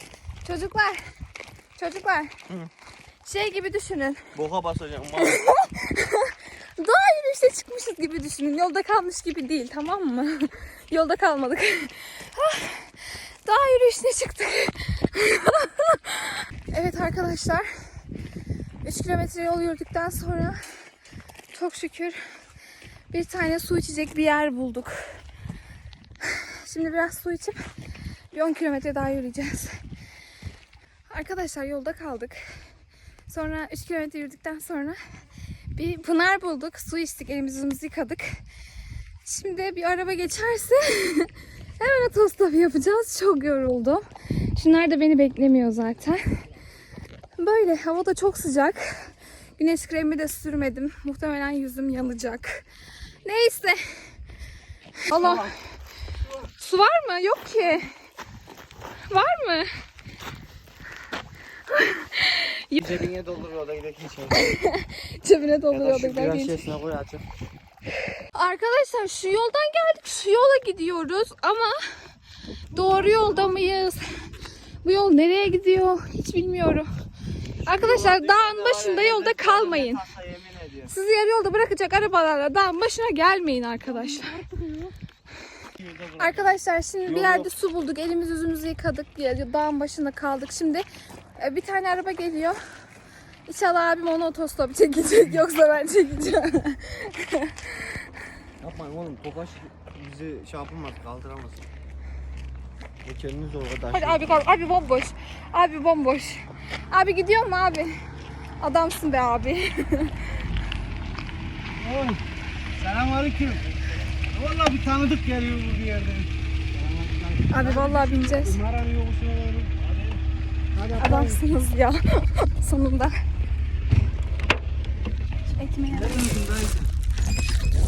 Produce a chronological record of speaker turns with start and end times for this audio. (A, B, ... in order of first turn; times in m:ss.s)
0:00.4-0:01.1 A
0:01.8-0:02.3 A
0:03.2-0:04.2 A
0:04.4-0:05.4 B
0:05.2-0:17.7 A
0:18.8-0:20.6 A
0:21.5-0:22.2 A
0:23.1-0:25.0 A
0:26.2-0:27.6 A
0:28.3-0:29.8 A
0:31.1-0:32.4 A
0:33.3-0:35.0 A
0:35.8-0:38.4 A
0:39.2-0:44.0 A
0:44.6-0:46.4 A
0:47.4-0:52.6 A
0:53.2-0:53.9 A
0:55.1-0:55.5 A
0:55.1-0:55.5 B
0:56.6-0:57.9 A
0:59.1-0:59.7 A
1:01.7-1:02.8 A
1:02.8-1:04.4 B
1:04.4-1:06.6 A
1:05.7-1:07.2 B
1:08.3-1:11.8 A
1:12.7-1:14.0 A
1:14.8-1:16.9 A
1:17.6-1:20.9 B
1:17.6-1:20.0 A
1:20.9-1:24.4 A
1:24.1-1:24.9 B
1:25.8-1:26.4 B
1:26.2-1:30.8 A
1:27.0-1:27.5 B
1:31.4-1:32.6 A
1:33.5-1:37.9 A
1:38.6-1:41.7 B
1:43.0-1:44.2 B
1:43.9-1:48.0 A
1:48.6-1:50.4 A
1:51.8-1:52.2 C
1:52.8-1:53.6 C
1:54.3-1:59.9 C
1:57.5-1:58.6 A
2:00.7-2:01.4 C
2:01.0-2:03.1 A
2:05.6-2:06.4 A
2:05.9-2:06.9 C